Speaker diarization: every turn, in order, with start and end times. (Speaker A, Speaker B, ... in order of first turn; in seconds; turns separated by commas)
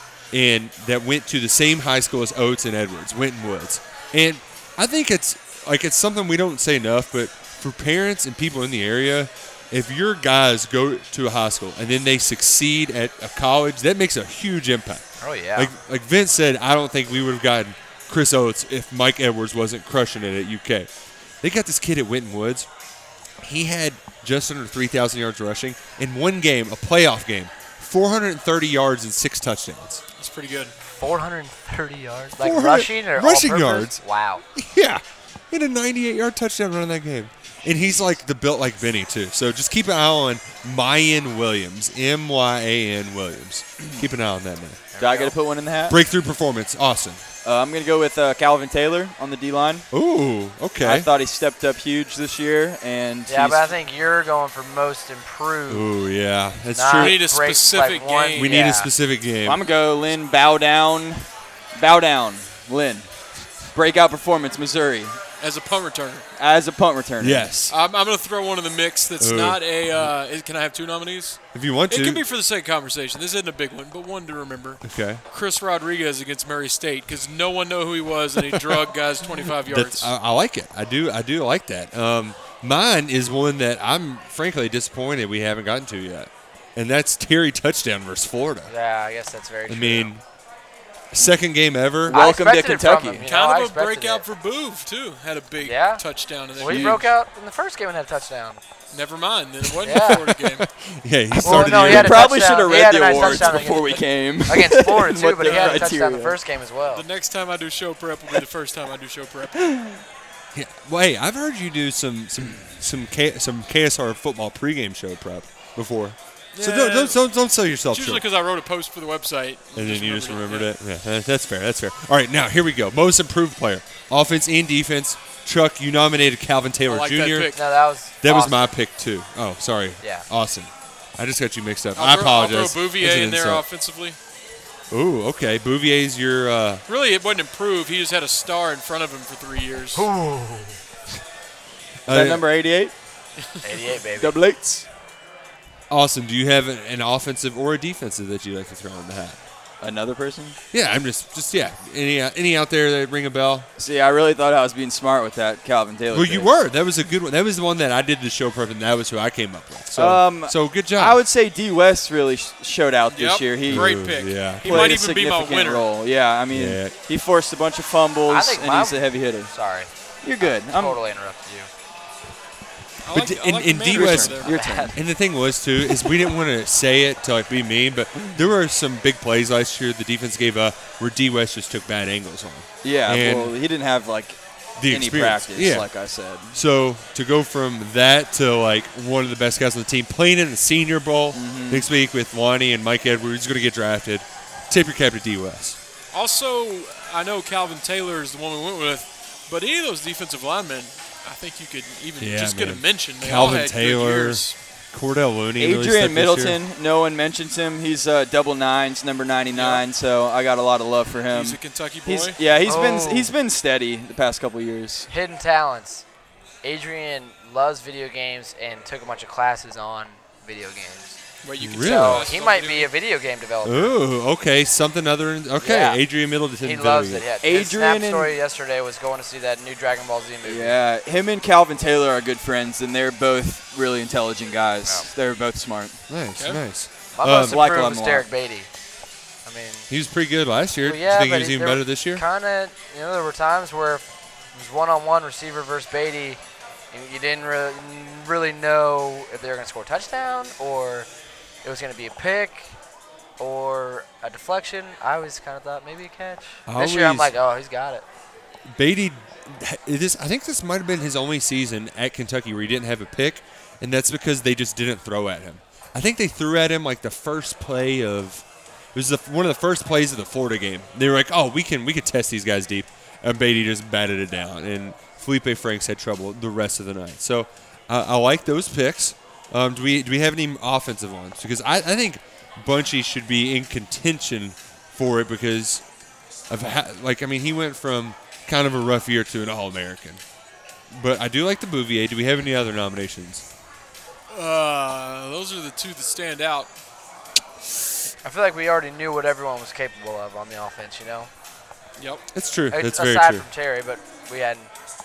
Speaker A: 0.3-20.9, Speaker B: 15.2-15.7, Speaker A: 21.4-22.7, Speaker A: 23.4-30.0, Speaker C: 30.2-30.7, Speaker B: 31.0-34.4, Speaker A: 32.4-34.0, Speaker A: 34.5-44.8, Speaker B: 44.9-45.3, Speaker D: 45.0-46.0, Speaker A: 45.9-47.2, Speaker D: 47.4-49.9, Speaker A: 49.9-51.1, Speaker D: 50.8-53.7, Speaker B: 53.3-55.9, Speaker A: 55.7-57.2, Speaker B: 56.7-58.9, Speaker C: 57.0-58.6, Speaker A: 58.4-59.6, Speaker D: 59.4-63.1, Speaker D: 63.7-65.2, Speaker C: 65.4-66.2, Speaker D: 66.4-67.5, Speaker A: 67.2-67.7, Speaker C: 67.7-80.1, Speaker A: 69.2-70.1, Speaker A: 71.5-72.2, Speaker A: 74.8-75.2, Speaker A: 78.4-78.8, Speaker A: 79.6-88.7, Speaker B: 88.7-90.1, Speaker A: 89.7-90.2, Speaker A: 91.1-92.2, Speaker D: 92.0-93.2, Speaker B: 92.1-94.2, Speaker C: 93.2-97.1, Speaker B: 95.6-96.0, Speaker B: 96.5-98.6, Speaker D: 96.6-97.0, Speaker C: 98.9-100.7, Speaker B: 99.8-100.2, Speaker A: 100.8-102.3, Speaker B: 101.4-107.0, Speaker D: 101.4-106.4, Speaker C: 105.4-105.9, Speaker C: 106.9-109.7, Speaker D: 109.6-110.0, Speaker A: 110.5-118.2, Speaker C: 116.5-117.2, Speaker C: 117.9-120.7, Speaker A: 119.7-127.6, Speaker C: 126.9-127.6, Speaker B: 127.5-128.7, Speaker A: 128.2-133.6, Speaker B: 130.0-130.3, Speaker C: 131.9-134.2, Speaker A: 134.9-136.8, Speaker C: 136.9-140.1, Speaker B: 139.9-140.8, Speaker A: 142.1-142.4, Speaker D: 142.1-142.9, Speaker B: 143.6-144.4, Speaker D: 144.2-144.8, Speaker A: 145.9-149.4, Speaker D: 149.8-150.6, Speaker A: 150.7-153.7, Speaker D: 153.8-156.5, Speaker A: 156.1-161.2, Speaker D: 159.9-169.5, Speaker C: 163.1-165.8, Speaker A: 163.7-164.9, Speaker A: 166.5-166.9, Speaker B: 168.3-169.9, Speaker D: 170.2-171.0, Speaker B: 170.4-171.7, Speaker C: 173.0-174.6, Speaker A: 173.1-183.5, Speaker D: 173.9-175.0, Speaker B: 174.5-174.9, Speaker D: 182.8-186.6, Speaker A: 184.8-185.9, Speaker A: 186.5-195.8, Speaker D: 191.3-191.9, Speaker C: 196.1-204.6, Speaker A: 202.2-206.6, Speaker D: 205.6-215.1, Speaker C: 209.5-209.8, Speaker C: 211.3-212.4, Speaker B: 212.6-213.3, Speaker B: 215.1-216.0, Speaker B: 216.6-221.2, Speaker C: 221.4-222.9, Speaker A: 221.6-222.3, Speaker B: 221.8-223.9, Speaker A: 223.6-227.2, Speaker B: 225.6-226.0, Speaker B: 226.6-230.8, Speaker D: 227.4-228.3, Speaker D: 230.4-236.0, Speaker A: 236.1-237.6, Speaker B: 237.1-238.7, Speaker D: 237.2-238.3, Speaker B: 239.4-239.9, Speaker A: 239.9-242.2, Speaker B: 240.8-246.4, Speaker B: 246.9-251.1, Speaker B: 251.6-252.8, Speaker B: 253.4-258.0, Speaker A: 256.7-257.3, Speaker A: 258.7-285.8, Speaker A: 286.5-290.2, Speaker A: 290.9-293.4, Speaker C: 294.3-296.7, Speaker B: 298.2-301.3, Speaker C: 302.0-302.2, Speaker A: 302.3-303.4, Speaker B: 302.7-304.7